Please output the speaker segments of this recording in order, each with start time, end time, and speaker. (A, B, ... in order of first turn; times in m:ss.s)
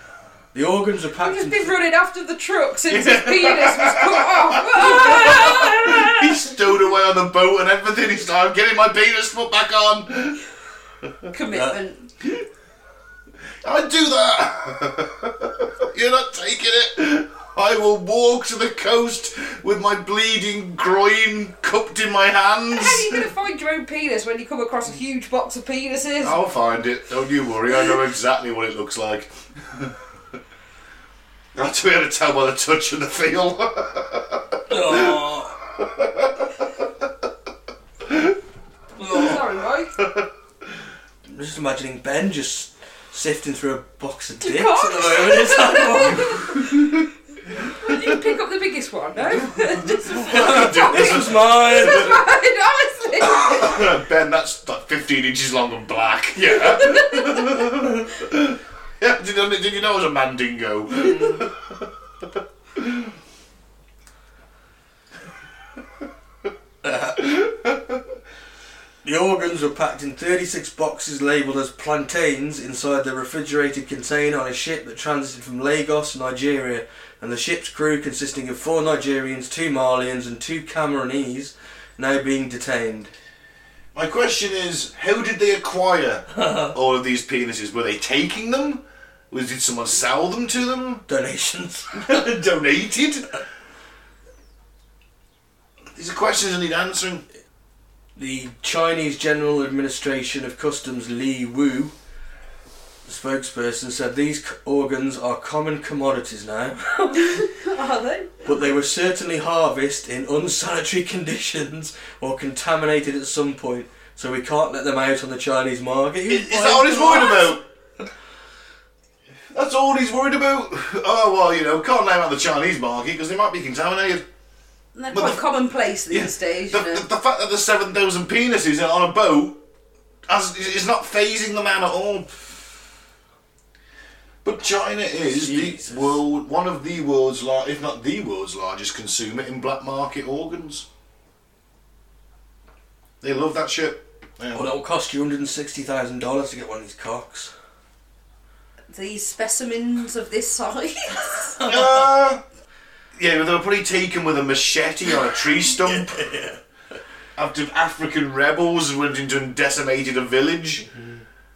0:00.5-0:01.7 A
0:01.2-0:06.6 B
0:02.9-0:10.4 C
0:11.3-0:12.0 B
0:13.6-0:23.2 C
0:22.7-0:26.4 B
0:26.2-0:30.0 C
0:31.5-0:36.9 C
0:34.7-0:35.6 A
0:38.0-0:38.4 C
0:39.0-0:40.0 B
0:39.1-0:39.4 C
0:40.0-0:40.3 C
0:41.3-0:47.0 A
0:44.4-0:46.6 B
0:47.6-0:53.9 B
0:49.3-0:52.1 C
0:50.2-0:52.2 A
0:53.2-1:01.9 C
0:56.5-0:57.8 B
1:02.7-1:03.1 C
1:06.8-1:07.3 A
1:07.2-1:08.0 C
1:09.0-1:23.1 A
1:23.9-1:31.0 C
1:26.4-1:26.7 A
1:31.1-1:32.1 A
1:31.9-1:33.3 C
1:35.9-1:37.2 C
1:38.2-1:41.9 A
1:43.0-1:47.0 A
1:47.0-1:48.6 B
1:48.4-1:57.5 A
1:56.3-1:57.6 C
1:57.3-1:57.5 B
1:59.5-2:04.2 C
2:04.9-2:07.0 B
2:05.1-2:05.4 C
2:06.1-2:09.6 C
2:10.3-2:12.4 C
2:14.4-2:20.8 C
2:15.3-2:16.1 A
2:23.2-2:24.7 C
2:24.5-2:27.5 A
2:28.9-2:31.6 B
2:31.6-2:31.9 A
2:31.6-2:32.4 C
2:33.2-2:36.2 C
2:35.8-2:36.6 A
2:37.4-2:40.8 C
2:40.9-2:41.2 A